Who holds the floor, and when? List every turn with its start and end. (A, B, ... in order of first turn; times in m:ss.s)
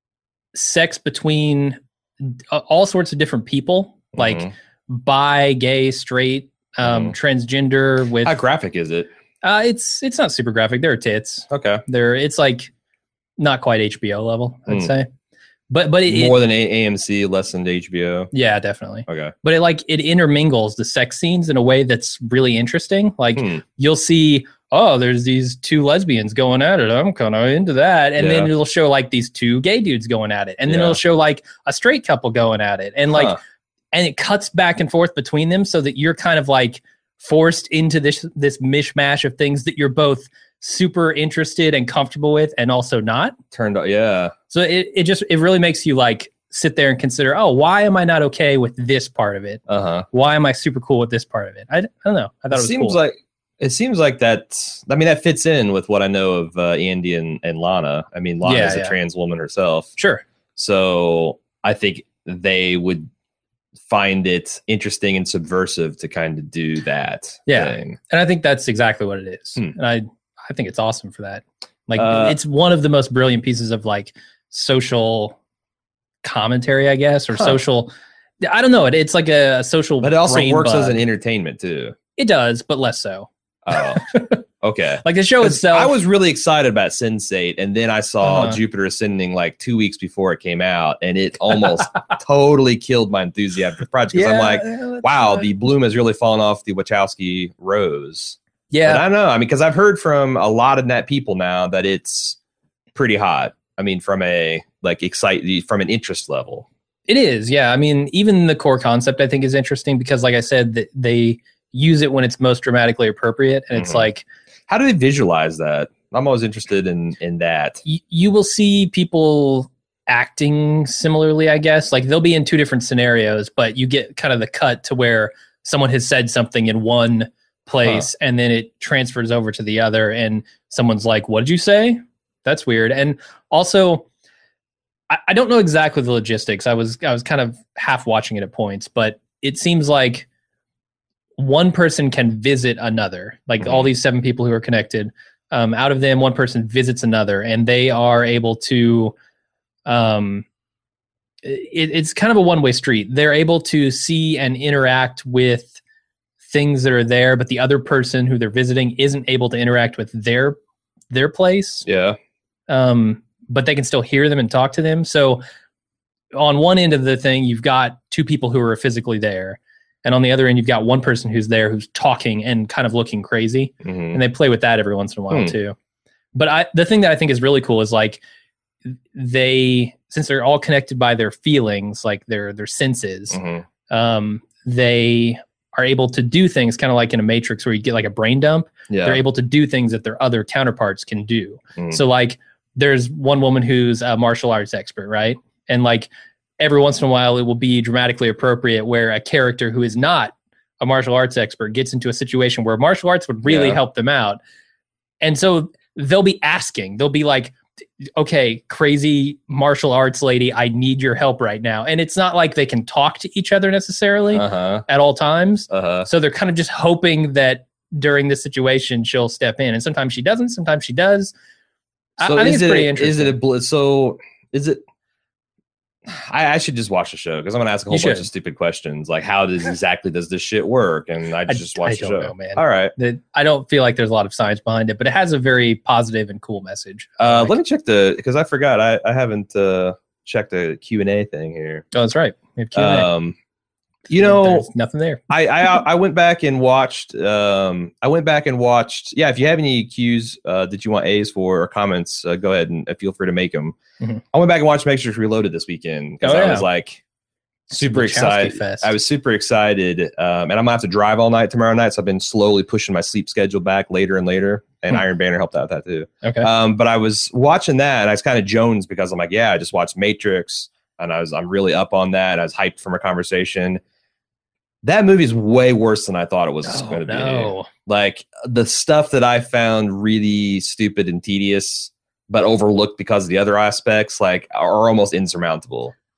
0:00.5-0:08.4 A
0:04.1-0:04.5 B
0:06.8-0:07.2 B
0:08.2-0:09.1 B
0:09.4-0:12.7 A
0:11.5-0:11.8 B
0:13.4-0:15.1 A
0:15.7-0:16.4 A
0:16.1-0:18.3 B
0:18.3-0:33.4 A
0:19.1-0:19.3 B
0:23.4-0:23.6 B
0:28.2-0:28.5 B
0:30.7-0:31.0 B
0:33.1-0:33.4 B
0:33.9-0:43.4 A
0:43.5-0:44.3 B
0:44.5-0:53.0 A
0:49.7-0:50.1 B
0:52.5-0:59.9 B
0:58.4-0:59.0 A
1:00.0-1:00.2 A
1:00.6-1:03.1 B
1:03.9-1:08.0 B
1:07.5-1:15.4 A
1:12.0-1:12.4 B
1:16.2-1:21.0 A
1:20.0-1:22.0 B
1:22.2-1:24.4 A
1:23.7-1:42.4 B
1:25.0-1:26.0 A
1:28.2-1:28.6 A
1:34.1-1:35.5 A
1:38.7-1:39.0 A
1:43.0-1:46.7 B
1:47.1-1:54.2 A
1:53.7-1:54.1 B
1:54.7-1:57.8 B
1:57.9-2:14.1 A
2:15.1-2:20.3 A
2:21.4-2:29.2 A
2:23.6-2:23.9 B
2:29.9-2:30.4 A
2:31.4-2:35.8 A
2:36.4-2:40.6 A
2:41.1-2:41.9 A
2:41.8-2:42.2 B
2:42.7-2:45.4 A
2:46.3-2:55.8 A
2:53.8-2:54.2 B
2:55.3-2:55.6 B
2:56.4-2:58.2 A
2:58.9-3:16.1 A
3:03.3-3:03.6 B
3:08.9-3:09.2 B
3:16.6-3:24.4 A
3:23.4-3:23.8 B
3:25.2-3:41.3 A
3:34.3-3:34.9 B
3:35.7-3:36.1 B
3:42.2-3:43.4 A
3:42.2-3:44.8 B
3:46.1-3:52.9 B
3:47.9-3:48.3 A
3:51.5-3:57.6 A
3:57.2-4:01.8 B
4:01.9-4:03.1 A
4:02.8-4:03.4 B
4:04.1-4:04.7 B
4:04.2-4:05.2 A
4:05.3-4:13.8 B
4:14.3-4:17.0 B
4:16.2-4:16.7 A
4:17.7-4:33.8 B
4:17.7-4:18.9 A
4:26.2-4:26.5 A
4:34.8-4:45.9 B
4:36.7-4:37.7 A